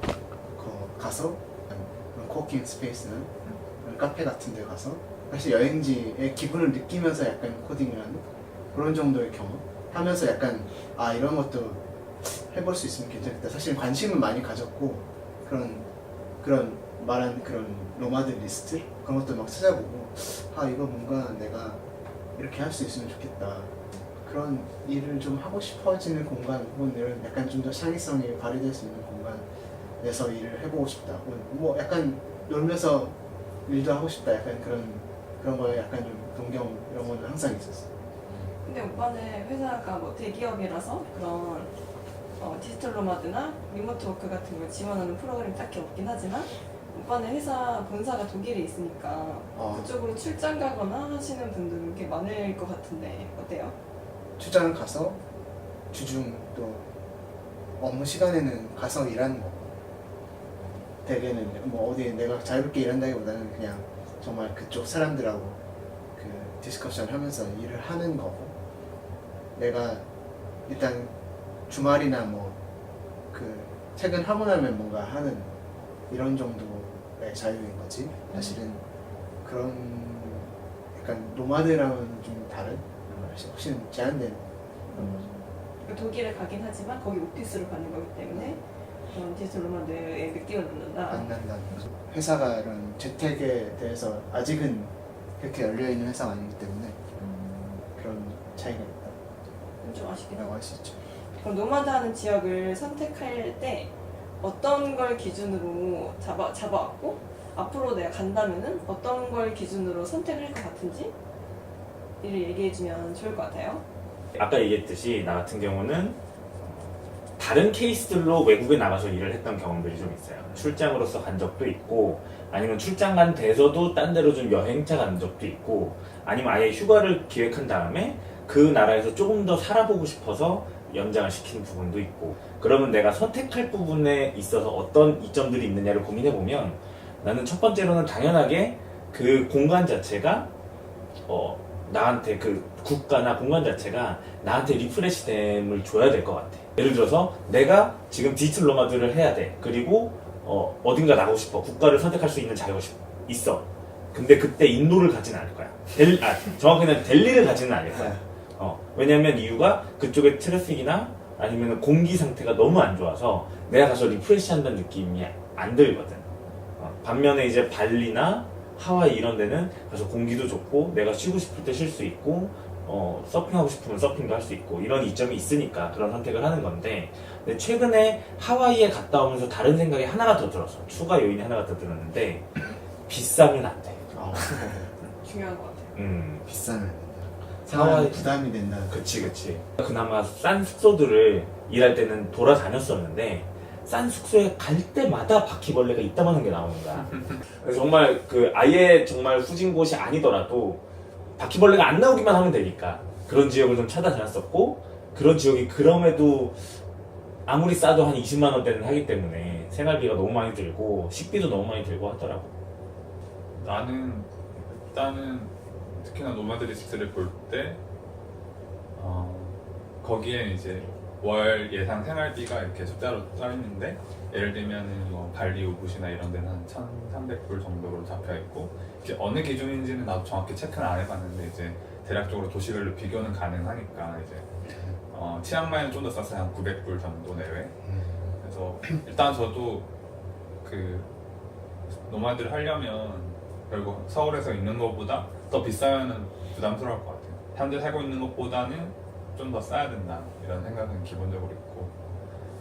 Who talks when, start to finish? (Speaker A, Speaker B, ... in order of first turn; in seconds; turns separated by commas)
Speaker A: 0.5-15.9, Speaker A: 16.4-21.8, Speaker A: 22.4-29.5, Speaker A: 30.0-37.9, Speaker B: 38.6-41.7, Speaker B: 42.4-53.8, Speaker A: 49.5-49.9, Speaker A: 54.4-55.2, Speaker A: 55.9-56.9, Speaker A: 57.8-59.8, Speaker A: 61.0-65.6, Speaker A: 66.2-68.5, Speaker A: 69.5-70.0, Speaker A: 70.7-71.1, Speaker A: 71.7-72.6, Speaker A: 73.3-75.5, Speaker A: 76.1-78.8, Speaker B: 78.3-78.8, Speaker A: 79.4-85.3, Speaker B: 84.9-91.3, Speaker A: 88.3-88.6, Speaker A: 91.1-97.0, Speaker B: 97.2-97.8, Speaker A: 97.9-99.2, Speaker B: 99.8-100.5, Speaker A: 100.3-101.0, Speaker B: 101.3-111.1, Speaker B: 112.2-113.8, Speaker C: 114.3-140.5, Speaker D: 120.4-120.7, Speaker C: 141.3-182.5, Speaker C: 183.1-184.4, Speaker A: 184.1-184.9, Speaker B: 185.2-186.0, Speaker C: 185.9-186.4, Speaker A: 186.4-189.0, Speaker C: 187.7-200.8, Speaker C: 201.4-206.7, Speaker C: 207.4-212.5, Speaker D: 213.6-217.8, Speaker D: 218.9-234.5, Speaker D: 235.1-237.8, Speaker D: 238.4-239.9, Speaker D: 240.6-241.1, Speaker D: 242.0-251.9